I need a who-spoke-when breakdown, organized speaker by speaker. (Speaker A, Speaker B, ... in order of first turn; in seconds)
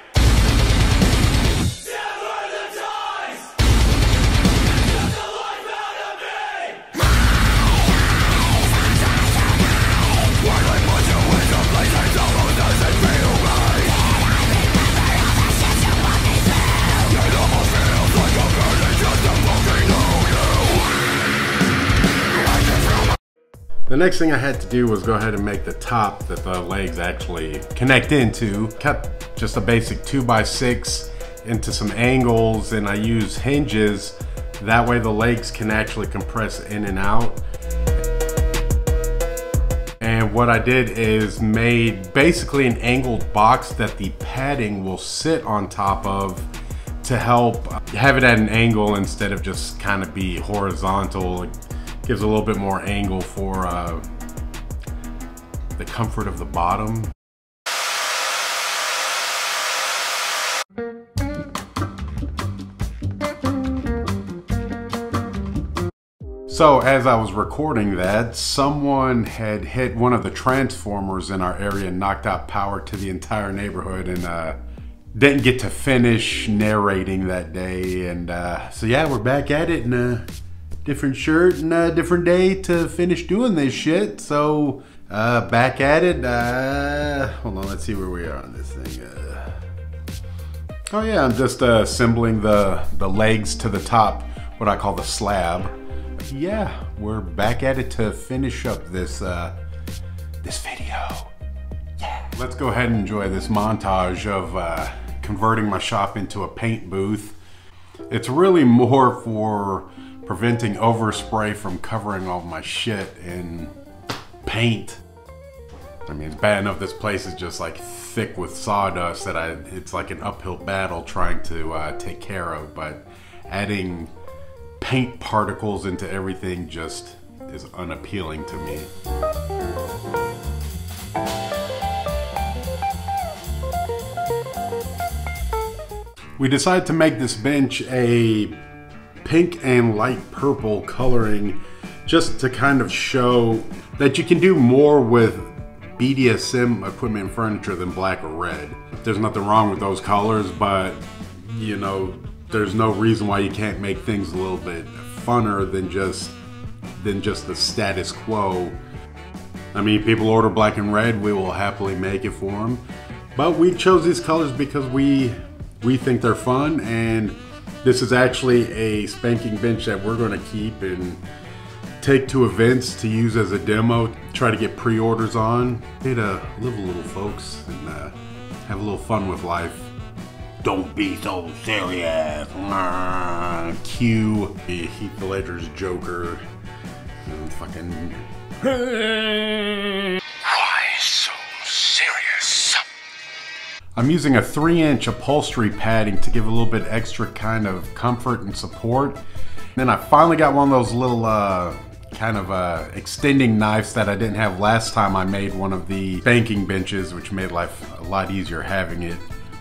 Speaker A: 19.5-20.2, 23.9-37.4, 40.0-46.5, 47.0-54.1, 55.8-57.1, 66.5-74.6, 75.1-80.3, 80.8-89.6, 90.9-95.8, 96.3-99.6, 100.4-101.3, 102.0-107.4, 108.1-113.8, 114.4-115.0, 116.1-124.1, 124.8-128.9, 136.4-138.6, 139.2-156.4, 157.0-158.8, 159.7-171.2, 172.0-179.9, 180.6-186.4, 187.2-192.8, 194.0-199.2, 199.8-209.3